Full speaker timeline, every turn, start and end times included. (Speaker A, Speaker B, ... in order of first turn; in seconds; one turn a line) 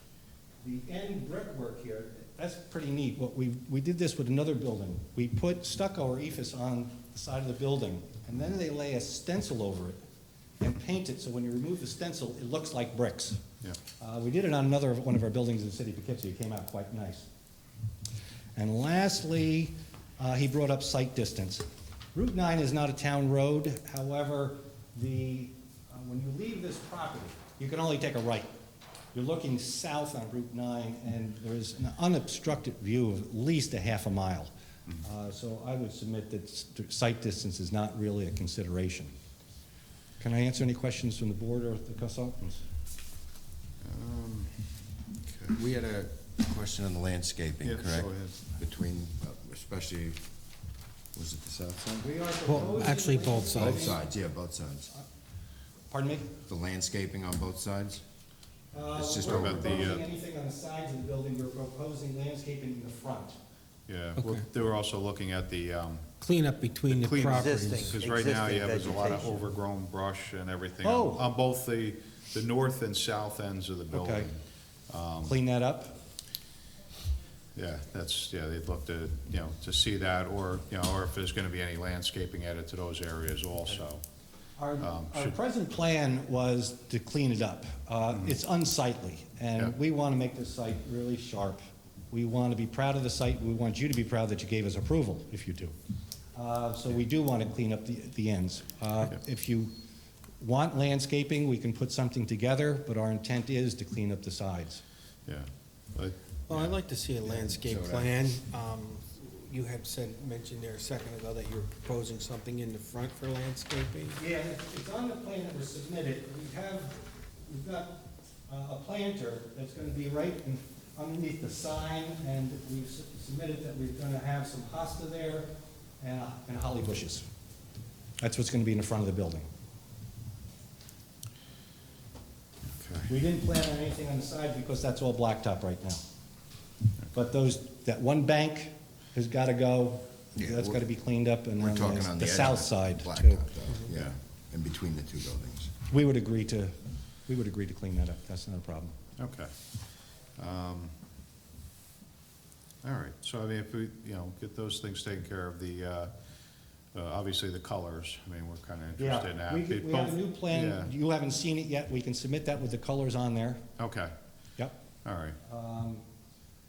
Speaker A: 0.6-10.0
Speaker A: 10.6-13.4
Speaker A: 14.0-17.3
Speaker A: 18.6-28.5
Speaker A: 29.1-39.1
Speaker A: 40.2-42.6
Speaker B: 43.8-45.6
Speaker C: 45.5-50.2
Speaker B: 47.6-48.4
Speaker C: 51.1-52.1
Speaker A: 52.0-54.0
Speaker D: 52.5-53.9
Speaker C: 53.5-54.9
Speaker A: 55.9-56.3
Speaker C: 56.5-58.0
Speaker A: 58.7-63.4
Speaker C: 58.8-60.0
Speaker B: 59.3-60.0
Speaker B: 63.9-66.2
Speaker D: 64.2-64.4
Speaker D: 66.2-69.4
Speaker B: 66.9-75.3
Speaker A: 70.8-71.2
Speaker A: 73.9-74.3
Speaker A: 75.2-76.0
Speaker B: 77.5-84.0
Speaker A: 84.6-95.7
Speaker B: 84.8-85.4
Speaker A: 96.3-99.7
Speaker A: 100.4-104.8
Speaker B: 105.2-106.8
Speaker D: 106.5-114.2
Speaker C: 107.2-108.1
Speaker A: 114.2-125.5
Speaker A: 126.0-127.2
Speaker A: 128.2-129.5
Speaker B: 132.7-133.1
Speaker A: 133.1-136.0
Speaker A: 137.1-143.5
Speaker C: 140.3-140.8
Speaker C: 141.6-145.7
Speaker A: 145.9-148.9
Speaker B: 149.2-149.5
Speaker B: 150.3-150.9
Speaker B: 152.8-156.1
Speaker B: 156.9-160.9
Speaker A: 159.0-163.6
Speaker B: 163.8-164.1
Speaker B: 165.0-165.4
Speaker A: 165.4-166.0